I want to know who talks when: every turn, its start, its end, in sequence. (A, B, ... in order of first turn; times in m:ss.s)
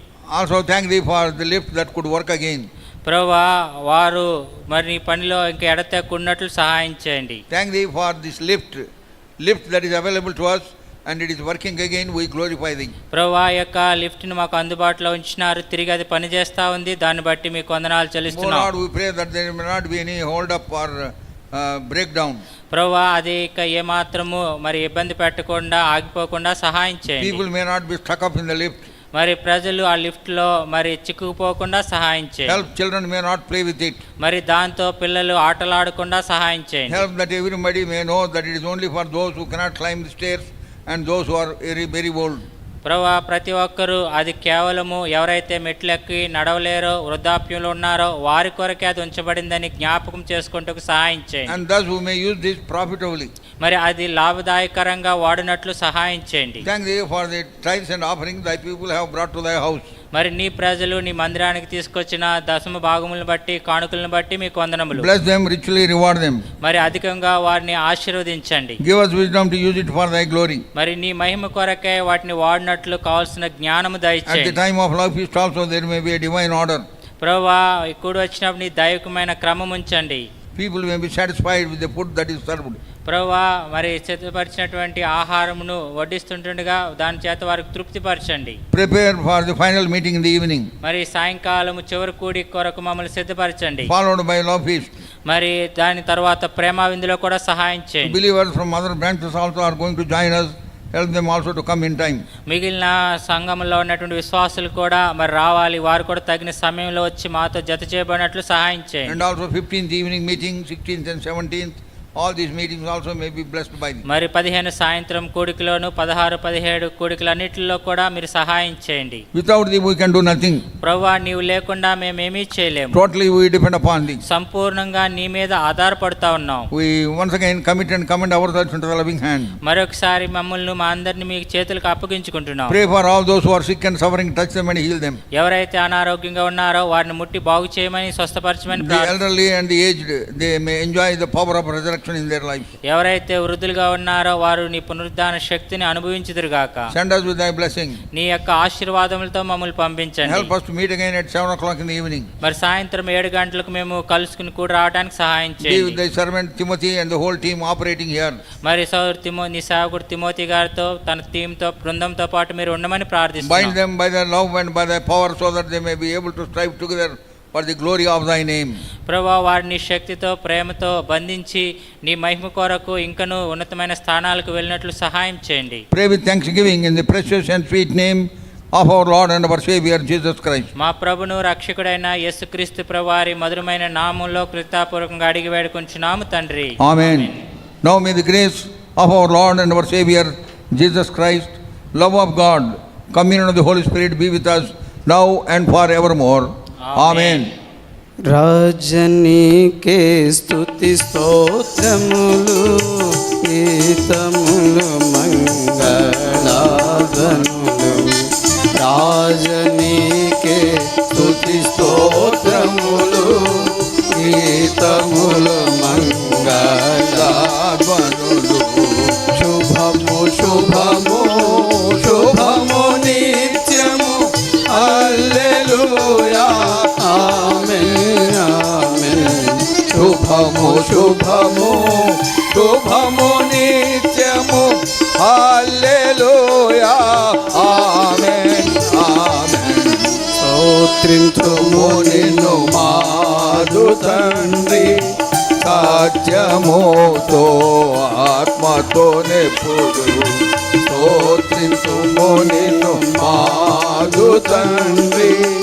0:00.3-0:02.7 A
0:03.0-0:07.4 B
0:07.5-0:08.8 A
0:09.4-0:12.9 A
0:13.1-0:18.7 B
0:18.3-0:22.4 A
0:22.7-0:27.4 B
0:27.2-0:28.9 A
0:29.1-0:32.6 B
0:32.5-0:34.0 A
0:34.2-0:37.0 B
0:36.9-0:42.5 A
0:42.8-0:51.6 B
0:51.5-0:53.3 A
0:53.6-0:56.7 B
0:56.6-0:59.9 A
1:00.1-1:05.1 B
1:04.9-1:06.4 A
1:06.6-1:08.8 B
1:08.8-1:10.6 A
1:10.8-1:14.6 B
1:14.3-1:16.9 A
1:17.2-1:20.3 B
1:20.6-1:22.8 A
1:23.0-1:28.6 B
1:28.7-1:30.7 A
1:30.8-1:33.9 B
1:33.9-1:34.9 A
1:35.3-1:38.2 B
1:38.0-1:42.2 A
1:42.5-1:49.2 B
1:49.1-1:54.0 A
1:54.1-1:59.2 B
1:59.3-2:00.6 A
2:00.8-2:03.0 B
2:02.9-2:04.2 A
2:04.3-2:06.7 B
2:06.7-2:09.6 A
2:09.6-2:12.8 B
2:12.7-2:15.2 A
2:15.4-2:19.1 B
2:18.7-2:22.8 A
2:22.8-2:26.9 B
2:26.9-2:28.0 A
2:28.1-2:30.5 B
2:30.2-2:32.3 A
2:32.4-2:36.0 B
2:35.6-2:38.4 A
2:38.6-2:43.8 B
2:43.4-2:48.8 A
2:49.1-2:55.8 B
2:55.9-3:00.7 A
3:00.8-3:07.4 B
3:06.8-3:17.5 A
3:16.8-3:17.5 B
3:18.2-3:33.7 C
3:26.5-3:27.4 A
3:31.2-3:33.2 A
3:34.2-3:35.7 A
3:34.2-3:37.4 C
3:37.0-3:39.2 A
3:39.4-3:42.7 C
3:40.4-3:46.9 A
3:47.0-3:51.4 C
3:49.9-4:00.3 A
4:00.4-4:05.0 C
4:01.4-4:05.0 A
4:05.6-4:15.5 A
4:12.7-4:15.3 C